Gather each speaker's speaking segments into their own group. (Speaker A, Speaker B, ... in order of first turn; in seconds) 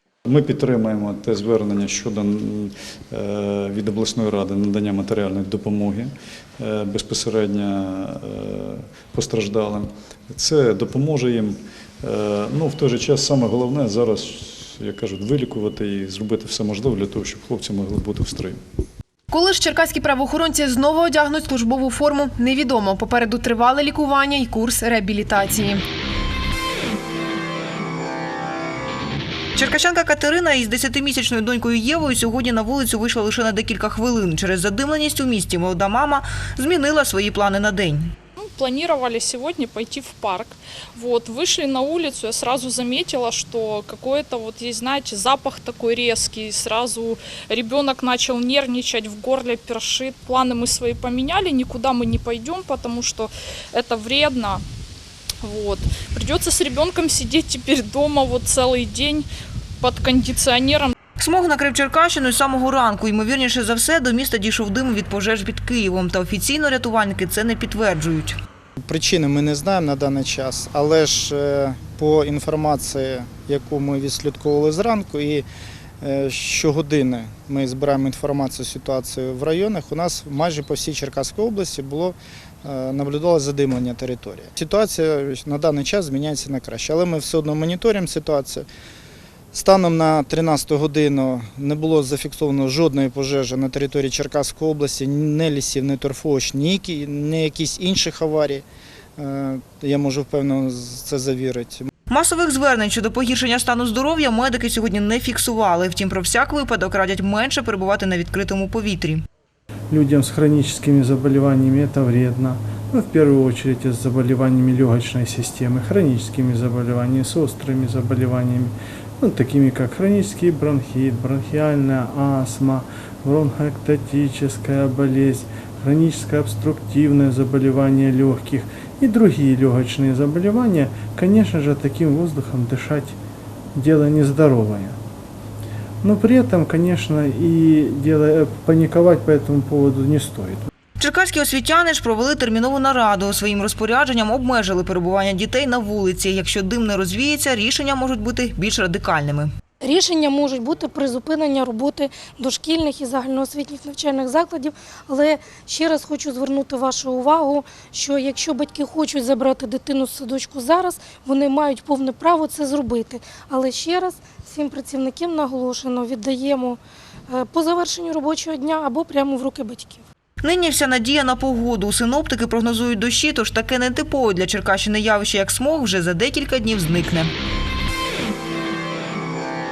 Speaker A: 0.2-18.6
Speaker B: 19.3-25.8
Speaker C: 29.6-38.1, 61.2-68.4, 102.1-109.2, 141.0-149.5, 170.4-177.3
Speaker D: 38.4-54.6, 55.4-59.3, 59.8-60.9
Speaker E: 68.8-75.5, 76.0-88.7, 89.5-98.6, 99.2-101.9
Speaker F: 109.9-133.2, 133.7-135.0, 136.0-140.7
Speaker G: 149.8-170.0